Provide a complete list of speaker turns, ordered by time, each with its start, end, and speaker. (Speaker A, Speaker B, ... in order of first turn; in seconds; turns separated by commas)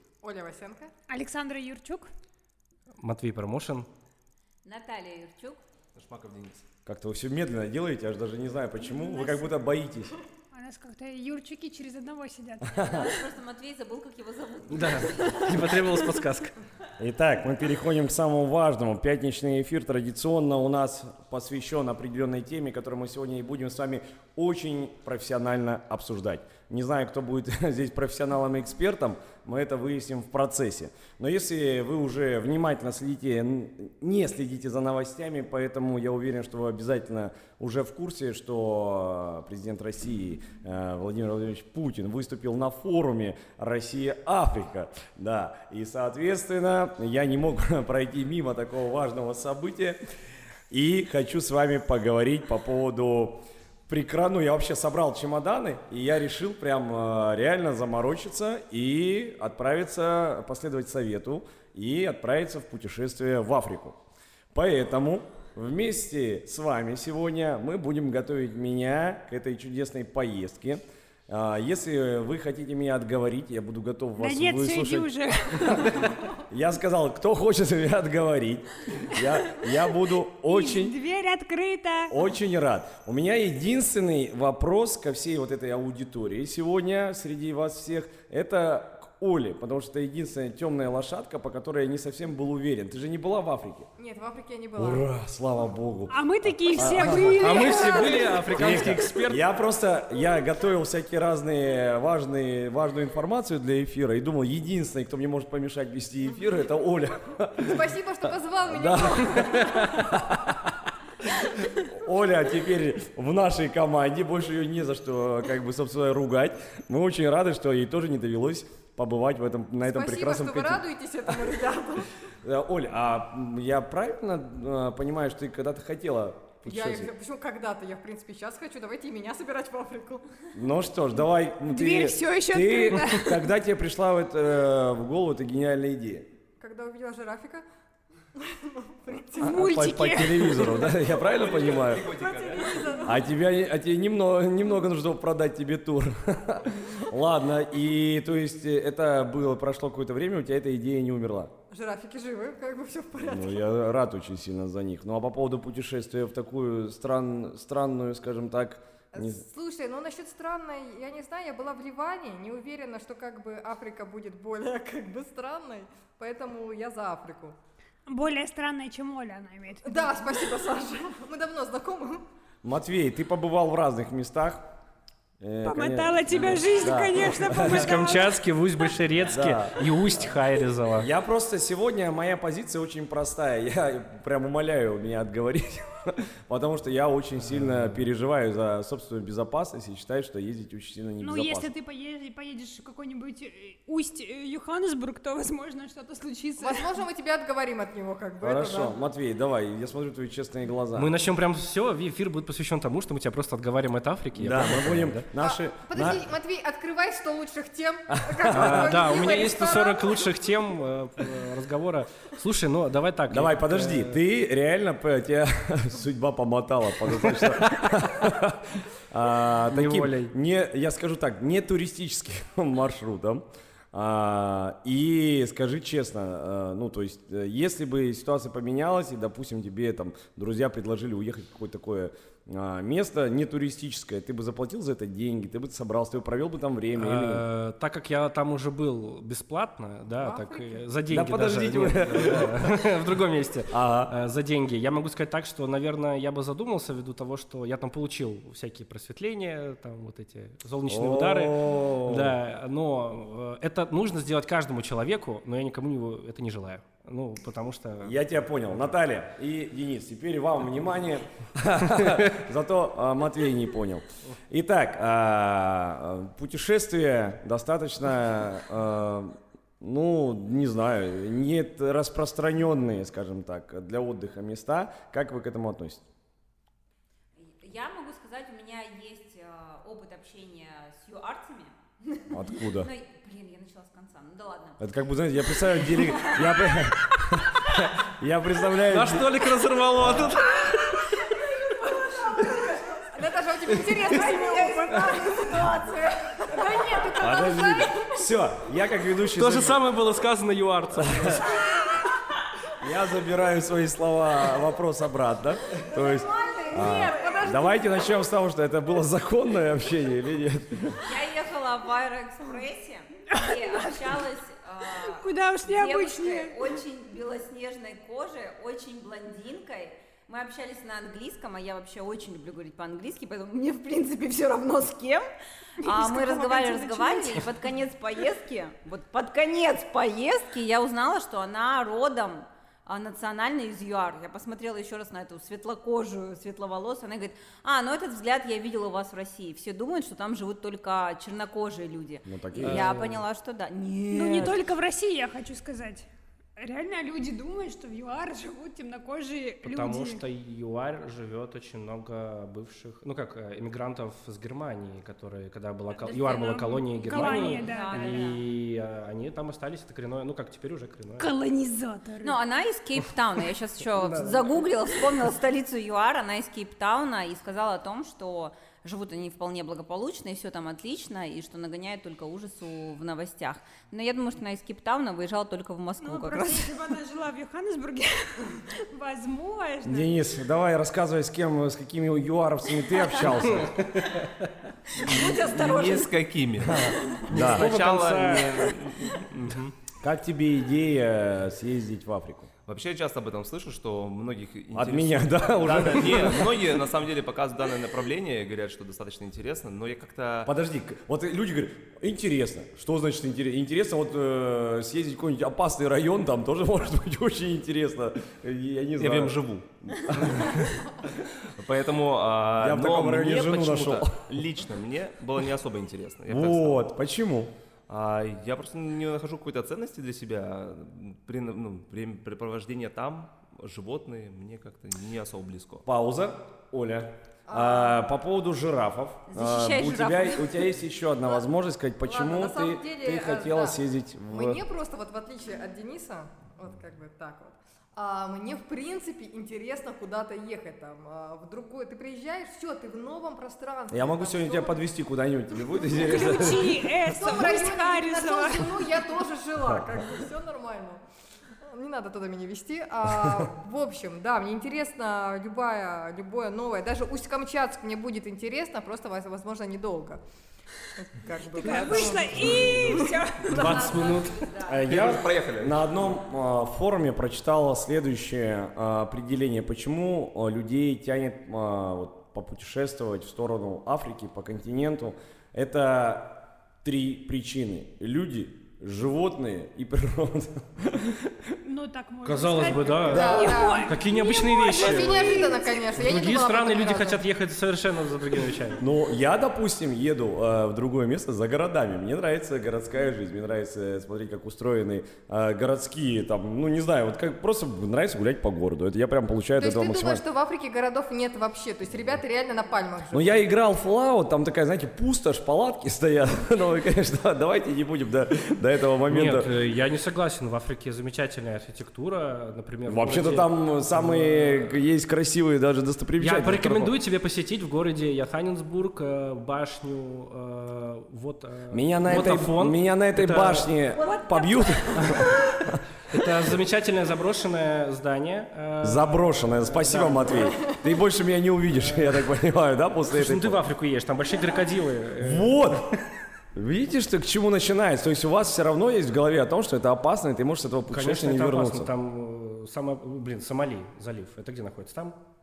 Speaker A: 0.2-0.9, Speaker B: 1.1-2.1, Speaker C: 3.0-3.9, Speaker D: 4.6-5.6, Speaker E: 5.9-6.6, Speaker F: 6.8-10.1, Speaker B: 10.5-13.2, Speaker F: 12.7-13.1, Speaker D: 12.8-16.0, Speaker C: 14.7-16.6, Speaker F: 17.0-50.0, Speaker F: 50.7-64.0, Speaker F: 64.5-81.0, Speaker B: 74.2-76.1, Speaker B: 80.4-82.2, Speaker F: 82.1-93.9, Speaker A: 94.0-95.0, Speaker F: 94.8-107.8, Speaker B: 96.1-98.6, Speaker C: 97.0-99.4, Speaker A: 107.6-110.2, Speaker F: 108.7-110.7, Speaker F: 111.3-120.8, Speaker A: 119.8-122.1, Speaker F: 122.4-127.1, Speaker A: 126.6-130.2, Speaker F: 130.5-136.3, Speaker B: 131.7-133.5, Speaker A: 136.6-137.7, Speaker A: 138.3-139.6, Speaker B: 139.4-140.9, Speaker F: 139.4-142.1, Speaker E: 141.2-143.0, Speaker A: 141.9-143.3, Speaker F: 143.0-151.5, Speaker A: 151.7-153.7, Speaker F: 153.2-159.4, Speaker A: 159.1-167.6, Speaker B: 168.1-170.2, Speaker A: 169.8-172.2, Speaker F: 172.6-174.7, Speaker F: 175.4-178.1, Speaker B: 175.6-178.3, Speaker C: 177.6-181.1, Speaker F: 179.3-179.8, Speaker F: 181.0-191.7, Speaker C: 187.5-188.0, Speaker B: 191.2-196.9, Speaker A: 196.6-199.0, Speaker F: 198.4-201.1, Speaker C: 200.9-205.2, Speaker F: 204.3-206.2, Speaker A: 205.4-210.3, Speaker F: 208.1-209.0, Speaker C: 208.5-214.2, Speaker F: 213.3-237.4, Speaker C: 217.3-217.8, Speaker C: 219.7-220.3, Speaker C: 236.9-258.2, Speaker A: 240.2-240.8, Speaker F: 241.1-242.6, Speaker F: 243.7-244.1, Speaker F: 250.9-252.3, Speaker F: 258.0-276.0, Speaker D: 277.4-284.8, Speaker F: 282.3-282.9, Speaker F: 284.8-289.3, Speaker D: 285.7-286.8, Speaker C: 288.9-291.2, Speaker F: 290.0-290.3, Speaker A: 292.0-296.0, Speaker D: 294.1-296.6, Speaker B: 296.5-298.1, Speaker F: 297.1-299.8, Speaker C: 299.4-301.6, Speaker F: 300.9-301.4, Speaker F: 302.8-311.0, Speaker D: 305.9-307.6, Speaker B: 306.3-307.7, Speaker A: 307.1-307.8, Speaker D: 311.0-325.2, Speaker B: 313.3-314.0, Speaker B: 315.0-316.6, Speaker B: 325.8-327.5, Speaker D: 325.8-344.6, Speaker F: 342.2-343.0, Speaker C: 342.6-343.2, Speaker B: 344.1-346.1, Speaker B: 346.6-350.2, Speaker C: 349.6-361.3, Speaker D: 355.9-358.4, Speaker B: 357.0-358.3, Speaker B: 361.2-362.4, Speaker D: 362.2-376.8, Speaker C: 363.9-364.6, Speaker B: 376.0-380.3, Speaker F: 379.8-383.7, Speaker C: 383.4-384.5, Speaker D: 385.0-386.1, Speaker E: 385.1-389.7, Speaker F: 386.6-387.7, Speaker C: 387.3-389.6, Speaker F: 390.0-392.5, Speaker E: 392.6-400.5, Speaker F: 394.7-396.6, Speaker F: 400.4-410.7, Speaker E: 409.0-410.4, Speaker C: 410.5-410.8, Speaker E: 411.4-416.9, Speaker F: 412.6-414.3, Speaker F: 416.3-417.5, Speaker E: 417.9-425.8, Speaker F: 425.9-434.6, Speaker A: 427.5-428.0, Speaker D: 429.3-430.6, Speaker A: 432.0-444.8, Speaker F: 443.9-446.8, Speaker B: 445.9-448.8, Speaker A: 447.0-451.0, Speaker A: 451.6-460.2, Speaker F: 453.2-453.5, Speaker A: 460.9-463.2, Speaker B: 461.6-463.6, Speaker D: 463.0-464.9, Speaker C: 463.5-464.5, Speaker F: 464.6-481.4, Speaker E: 464.8-465.8, Speaker B: 481.6-485.7, Speaker C: 482.2-488.8, Speaker A: 483.1-487.2, Speaker F: 488.8-500.2, Speaker A: 499.6-503.4, Speaker F: 503.1-509.5, Speaker C: 509.1-514.8, Speaker F: 512.9-516.9, Speaker C: 516.2-523.7, Speaker F: 521.7-525.8, Speaker D: 524.0-525.0, Speaker B: 524.0-525.3, Speaker C: 525.0-525.3, Speaker C: 526.1-530.7, Speaker F: 528.8-533.6, Speaker C: 531.7-532.3, Speaker C: 533.1-535.6, Speaker F: 535.2-535.9, Speaker F: 536.5-541.9, Speaker C: 540.9-545.2